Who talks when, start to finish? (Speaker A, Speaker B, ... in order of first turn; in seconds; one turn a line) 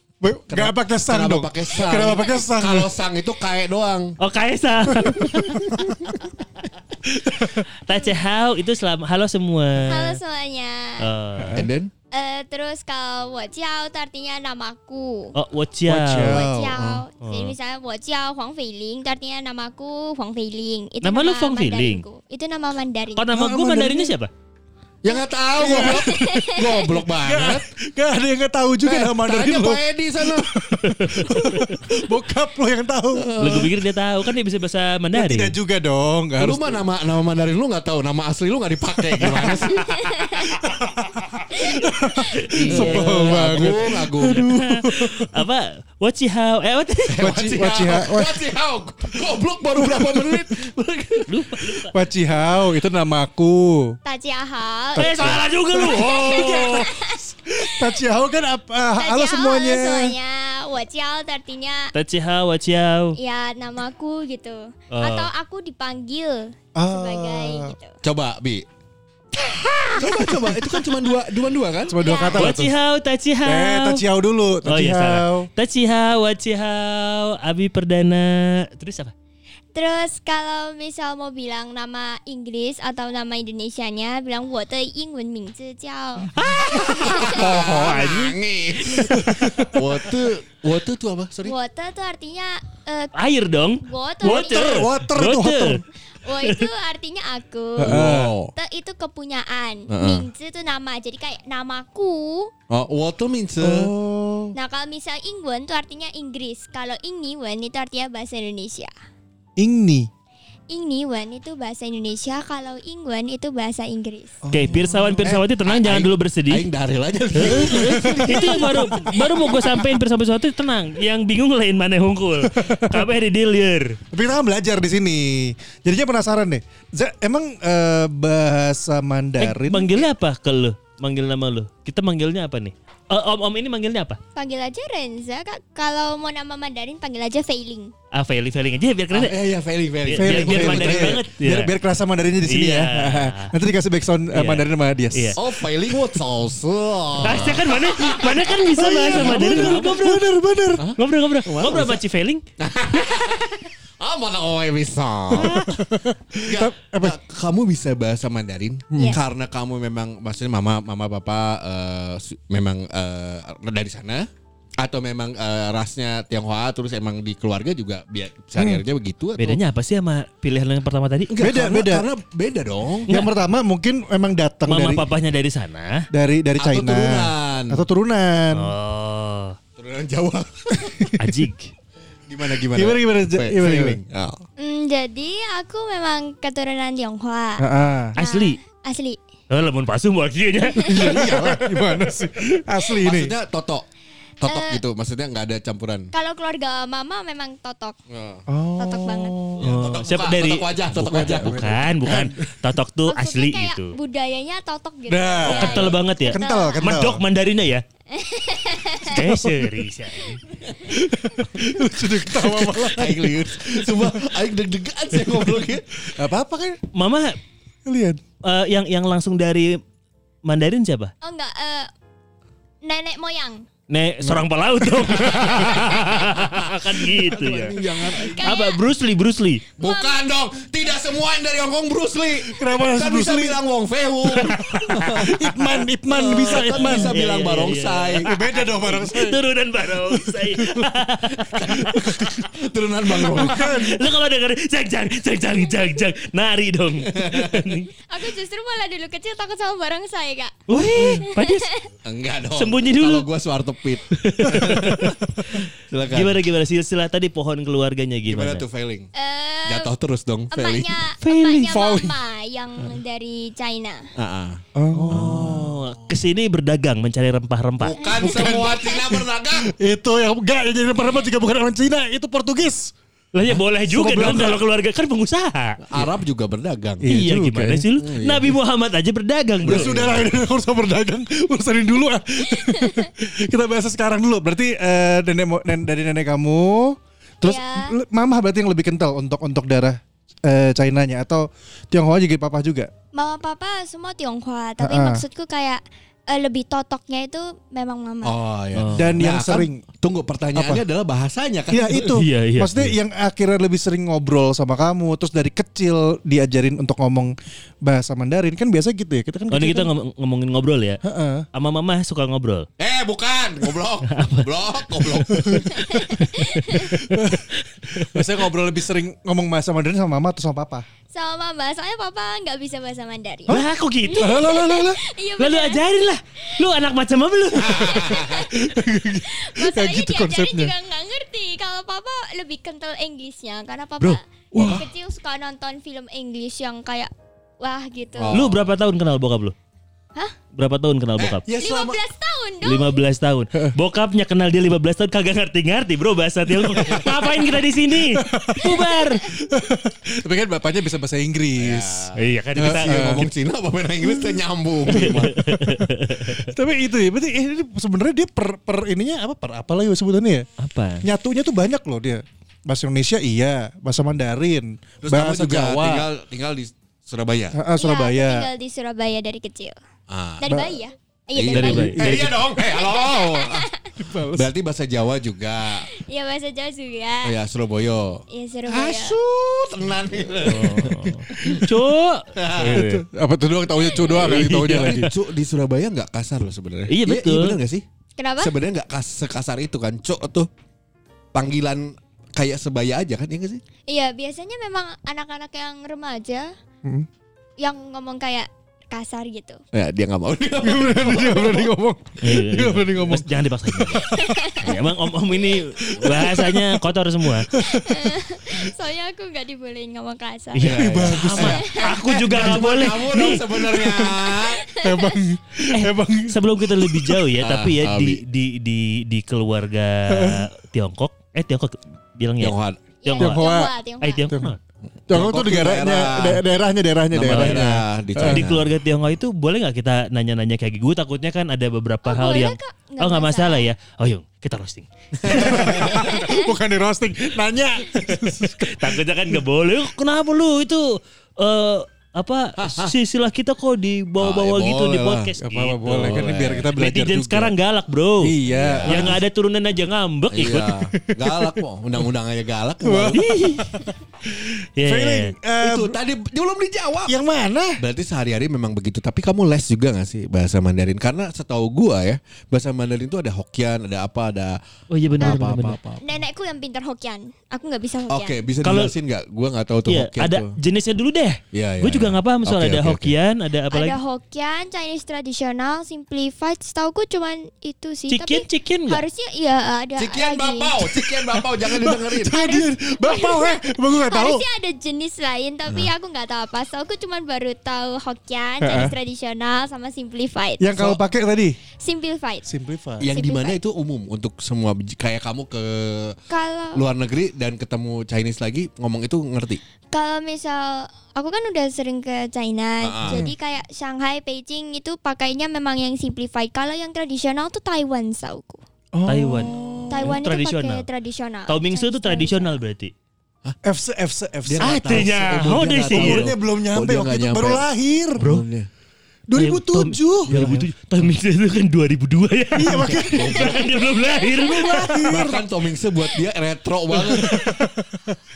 Speaker A: 0.2-2.9
Speaker B: 0.5-4.2
Speaker C: 4.2-5.9
Speaker A: 5.0-5.8
Speaker A: 7.3-7.6
Speaker C: 7.4-10.2
Speaker D: 9.9-11.1
Speaker C: 11.0-11.6
Speaker A: 11.4-11.7
Speaker B: 11.6-11.9
Speaker D: 12.1-15.3
Speaker C: 15.3-16.4
Speaker A: 15.9-16.8
Speaker D: 16.2-23.3
Speaker B: 16.7-17.0
Speaker C: 17.2-17.6
Speaker C: 21.0-22.0
Speaker C: 23.2-24.3
Speaker A: 23.3-24.1
Speaker B: 25.0-27.7
Speaker A: 25.6-26.3
Speaker D: 25.6-26.9
Speaker A: 27.1-33.3
Speaker B: 28.8-30.6
Speaker B: 33.1-33.8
Speaker C: 33.4-35.5
Speaker A: 35.1-36.8
Speaker B: 36.4-40.6
Speaker A: 39.2-39.7
Speaker C: 39.2-39.7
Speaker D: 40.0-40.5
Speaker A: 40.6-45.4
Speaker C: 42.5-43.8
Speaker B: 42.7-44.5
Speaker C: 44.4-47.9
Speaker B: 47.1-51.5
Speaker A: 47.2-48.4
Speaker A: 49.9-50.4
Speaker C: 51.3-51.9
Speaker A: 51.9-54.0
Speaker D: 54.0-55.1
Speaker A: 55.0-60.2
Speaker C: 55.0-56.9
Speaker D: 56.2-57.9
Speaker D: 59.0-61.9
Speaker C: 61.9-63.1
Speaker D: 63.2-68.0
Speaker C: 64.9-65.3
Speaker A: 66.8-67.8
Speaker B: 68.0-68.7
Speaker D: 69.7-70.5
Speaker B: 69.9-72.0
Speaker A: 71.9-72.7
Speaker D: 72.0-72.5
Speaker C: 72.3-74.0
Speaker A: 73.5-75.5
Speaker C: 74.7-79.1
Speaker D: 79.8-86.3
Speaker C: 86.3-88.4
Speaker B: 86.5-91.5
Speaker A: 88.9-89.8
Speaker D: 91.5-93.2
Speaker C: 93.2-95.8
Speaker D: 93.8-94.9
Speaker A: 94.2-95.8
Speaker D: 96.2-102.5
Speaker C: 96.4-96.7
Speaker A: 97.8-98.3
Speaker B: 97.8-98.5
Speaker B: 99.9-100.3
Speaker B: 102.7-103.9
Speaker A: 103.6-104.5
Speaker D: 104.5-108.9
Speaker A: 109.6-110.1
Speaker D: 110.7-114.4
Speaker A: 114.4-115.4
Speaker C: 114.5-116.7
Speaker B: 115.2-119.7
Speaker C: 117.3-124.0
Speaker A: 117.5-118.8
Speaker A: 122.5-123.1
Speaker A: 124.1-129.9
Speaker C: 129.4-134.2
Speaker D: 134.3-137.9
Speaker C: 138.1-139.4
Speaker B: 139.1-141.2
Speaker C: 140.1-141.7
Speaker A: 140.2-146.2
Speaker C: 142.4-143.5
Speaker C: 144.3-145.4
Speaker B: 145.4-150.1
Speaker C: 147.2-150.3
Speaker A: 147.2-147.5
Speaker A: 148.5-150.9
Speaker B: 150.8-152.0
Speaker C: 151.0-152.4
Speaker B: 152.6-155.7
Speaker A: 155.3-157.2
Speaker B: 156.4-164.3
Speaker B: 164.8-169.6
Speaker A: 168.6-168.8
Speaker C: 169.4-171.3
Speaker B: 171.3-173.1
Speaker A: 171.4-172.1
Speaker C: 173.1-173.3
Speaker A: 173.1-175.1
Speaker C: 174.7-175.9
Speaker A: 176.1-178.7
Speaker B: 176.6-177.8
Speaker C: 178.5-179.6
Speaker B: 179.8-181.1
Speaker A: 180.8-181.2
Speaker C: 181.2-181.7
Speaker B: 182.3-184.4
Speaker A: 182.7-184.0
Speaker D: 184.6-187.7
Speaker A: 187.6-188.2
Speaker C: 188.2-188.6
Speaker D: 188.2-189.2
Speaker C: 189.5-191.4
Speaker A: 190.8-193.3
Speaker B: 191.1-191.9
Speaker B: 192.9-193.9
Speaker B: 194.4-196.1
Speaker D: 194.4-194.8
Speaker D: 196.1-197.9
Speaker B: 198.1-198.4
Speaker A: 198.5-199.8
Speaker D: 198.8-199.4
Speaker B: 199.6-201.8
Speaker C: 199.6-204.0
Speaker A: 200.9-202.5
Speaker D: 203.1-207.0
Speaker A: 205.1-207.2
Speaker C: 205.4-207.8
Speaker D: 208.1-209.2
Speaker C: 209.1-210.4
Speaker A: 209.2-209.8
Speaker A: 210.9-214.4
Speaker B: 212.4-215.8
Speaker A: 216.1-216.8
Speaker C: 216.9-217.4
Speaker A: 217.9-218.2
Speaker C: 218.4-219.8
Speaker C: 220.4-221.1
Speaker D: 221.2-221.9
Speaker D: 222.8-223.7
Speaker C: 223.9-229.6
Speaker B: 225.0-228.6
Speaker D: 228.0-228.8
Speaker D: 229.8-230.2
Speaker B: 229.8-238.3
Speaker A: 232.6-233.6
Speaker A: 234.3-237.1
Speaker C: 236.4-242.4
Speaker A: 238.2-239.4
Speaker A: 240.0-240.9
Speaker B: 241.5-243.8
Speaker A: 241.7-242.1
Speaker A: 243.2-244.1
Speaker C: 243.2-247.9
Speaker B: 247.0-247.9
Speaker D: 248.1-251.9
Speaker C: 250.7-251.7
Speaker B: 250.8-251.2
Speaker B: 252.1-256.4
Speaker C: 252.6-253.3
Speaker C: 254.1-258.6
Speaker B: 258.3-259.1
Speaker D: 259.1-259.9
Speaker B: 259.7-261.0
Speaker D: 260.5-264.1
Speaker C: 261.2-262.0
Speaker A: 261.7-262.1
Speaker B: 264.2-266.2
Speaker A: 264.8-265.8
Speaker C: 264.9-268.0
Speaker B: 267.8-269.7
Speaker D: 267.8-269.1
Speaker A: 268.2-272.9
Speaker C: 273.3-275.8
Speaker A: 273.9-274.6
Speaker B: 275.8-277.1
Speaker A: 277.0-277.9
Speaker C: 277.1-280.1
Speaker B: 278.0-278.6
Speaker B: 279.6-280.3
Speaker A: 279.6-292.9
Speaker D: 282.6-283.1
Speaker D: 287.4-287.9
Speaker D: 293.1-298.4
Speaker A: 294.8-295.2
Speaker B: 298.2-302.2
Speaker C: 298.8-299.2
Speaker A: 299.0-299.8
Speaker A: 300.6-300.8
Speaker A: 301.7-309.9
Speaker C: 302.1-303.0
Speaker C: 309.5-311.0
Speaker A: 311.1-311.5
Speaker C: 311.5-312.7
Speaker B: 312.8-316.0
Speaker C: 314.1-315.2
Speaker D: 315.7-317.0
Speaker C: 316.0-318.3
Speaker A: 317.0-317.4
Speaker A: 318.0-320.9
Speaker D: 321.1-325.8
Speaker C: 323.5-324.5
Speaker A: 324.2-325.0
Speaker C: 325.4-328.2
Speaker B: 327.6-328.5
Speaker D: 327.7-338.4
Speaker A: 328.5-330.7
Speaker A: 334.5-334.8
Speaker B: 334.6-334.9
Speaker B: 338.2-338.6
Speaker C: 338.3-339.5
Speaker C: 340.5-341.4
Speaker B: 341.2-342.0
Speaker D: 341.6-343.0
Speaker C: 342.6-349.3
Speaker B: 346.7-347.3
Speaker A: 348.0-353.3
Speaker B: 351.6-355.4
Speaker C: 352.2-353.2
Speaker A: 354.1-360.5
Speaker C: 354.9-356.5
Speaker C: 360.6-361.1
Speaker A: 361.0-366.1
Speaker B: 365.0-367.6
Speaker A: 367.5-368.5
Speaker D: 367.8-369.8
Speaker B: 370.1-370.5
Speaker D: 370.4-373.9
Speaker A: 370.5-370.8
Speaker B: 371.3-373.7
Speaker C: 371.5-372.2
Speaker A: 371.6-372.4
Speaker A: 374.0-374.5
Speaker B: 374.3-375.9
Speaker D: 376.0-377.4
Speaker B: 377.2-381.7
Speaker D: 378.3-379.2
Speaker C: 380.4-383.1
Speaker B: 382.4-382.9
Speaker A: 382.6-385.1
Speaker D: 383.8-384.1
Speaker C: 384.1-385.1
Speaker B: 384.2-387.8
Speaker C: 386.9-387.6
Speaker D: 388.2-388.6
Speaker B: 388.4-390.5
Speaker B: 391.3-393.6
Speaker D: 393.9-396.5
Speaker D: 397.6-399.6
Speaker B: 399.7-401.7
Speaker A: 400.6-404.2
Speaker C: 402.2-407.5
Speaker D: 404.0-404.7
Speaker A: 405.9-406.8
Speaker A: 407.5-408.2
Speaker D: 407.6-411.9
Speaker C: 410.5-413.4
Speaker B: 410.6-414.6
Speaker A: 410.7-413.0
Speaker A: 413.6-414.2
Speaker D: 414.1-415.2
Speaker A: 414.8-417.2
Speaker C: 415.7-423.4
Speaker B: 417.4-418.2
Speaker A: 420.1-420.5
Speaker B: 422.4-422.8
Speaker D: 423.0-424.3
Speaker A: 423.2-423.7
Speaker C: 424.0-424.6
Speaker B: 425.1-426.4
Speaker A: 425.1-428.4
Speaker B: 427.1-428.7
Speaker C: 427.2-435.9
Speaker D: 432.1-433.7
Speaker B: 435.2-436.3
Speaker A: 435.3-439.4
Speaker D: 436.0-436.5
Speaker C: 438.4-450.8
Speaker B: 442.6-442.9
Speaker B: 444.2-445.3
Speaker A: 445.4-447.5
Speaker B: 445.9-446.7
Speaker A: 448.2-449.2
Speaker B: 448.4-449.2
Speaker B: 450.3-453.2
Speaker A: 451.0-451.6
Speaker A: 452.8-453.9
Speaker C: 453.1-455.3
Speaker A: 454.8-456.0
Speaker B: 455.6-457.2
Speaker A: 457.1-457.8
Speaker B: 457.8-464.6
Speaker C: 464.9-465.8
Speaker B: 465.2-466.0
Speaker D: 466.0-468.4
Speaker B: 468.1-470.5
Speaker C: 468.6-468.9
Speaker C: 469.9-474.0
Speaker B: 471.5-473.1
Speaker D: 473.7-480.7
Speaker C: 478.1-479.0
Speaker B: 480.0-482.4
Speaker A: 481.1-484.4
Speaker D: 482.3-490.9
Speaker A: 488.6-488.9
Speaker B: 488.7-488.9
Speaker A: 490.6-491.6
Speaker D: 491.8-492.5
Speaker A: 492.5-493.1
Speaker B: 493.0-496.2
Speaker D: 493.0-493.6
Speaker D: 496.3-496.9
Speaker B: 496.7-499.6
Speaker D: 499.9-508.6
Speaker B: 502.8-503.3
Speaker A: 503.1-503.3
Speaker A: 508.9-510.1
Speaker C: 509.1-510.9
Speaker D: 509.9-512.6
Speaker C: 511.5-512.9
Speaker A: 513.6-515.1
Speaker B: 514.5-517.7
Speaker C: 514.6-516.3
Speaker A: 515.9-518.2
Speaker C: 518.2-518.5
Speaker B: 518.2-518.7
Speaker A: 519.3-520.7
Speaker C: 519.4-525.0
Speaker A: 522.6-523.4
Speaker B: 523.1-523.7
Speaker D: 523.3-525.0
Speaker B: 524.5-527.6
Speaker A: 524.6-525.4
Speaker A: 526.9-528.2